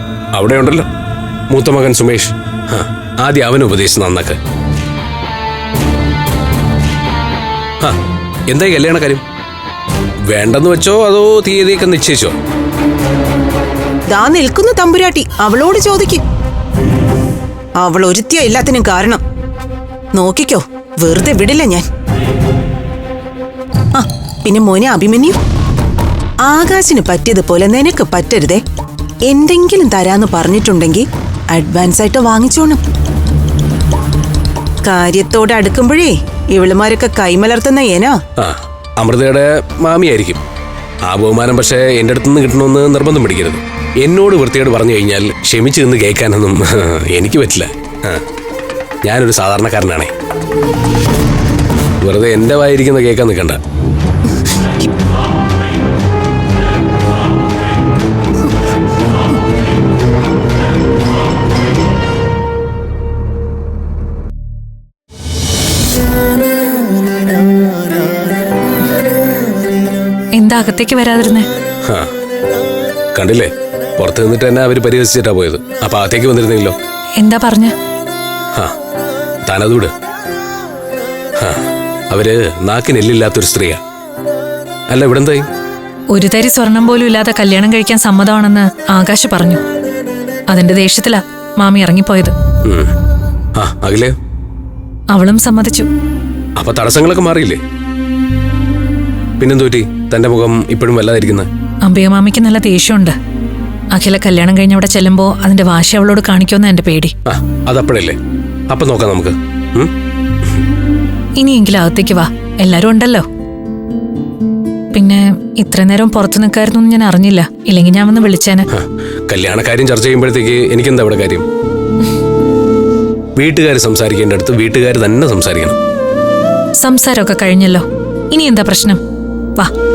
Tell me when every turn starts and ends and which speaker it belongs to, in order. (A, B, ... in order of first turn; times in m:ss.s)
0:00.4-0:00.9 A
0:01.5-0:04.4 A
0:08.5-0:09.2 A
0:10.3-0:12.4 A
0:14.1-0:16.2 B
0:17.8-0:19.2 B
0:20.2-0:21.8 B
0:24.0-0:25.4 B
0:26.4-0:28.6 B
0:29.3-0:32.8 B
0:34.8-0:38.2 B
0:38.4-0:40.4 A
0:41.1-0:48.2 A
0:49.0-0:50.1 A
0:52.0-0:53.6 A
1:10.4-1:11.5 C
1:13.2-1:16.8 A
1:17.2-1:17.8 C
1:19.5-1:19.9 A
1:21.4-1:23.8 A
1:24.9-1:25.5 A
1:26.1-1:29.6 C
1:30.5-1:32.3 C
1:32.6-1:32.9 A
1:33.6-1:34.1 A
1:35.1-1:35.9 C
1:36.6-1:37.6 A
1:39.4-1:41.5 A
1:41.8-1:43.2 C
1:43.9-1:47.1 C
1:47.3-1:48.2 A
1:48.7-1:49.9 A
1:51.4-1:53.3 C
1:54.9-1:58.7 C
1:58.7-2:01.4 A
2:03.4-2:05.8 A
2:06.8-2:09.0 C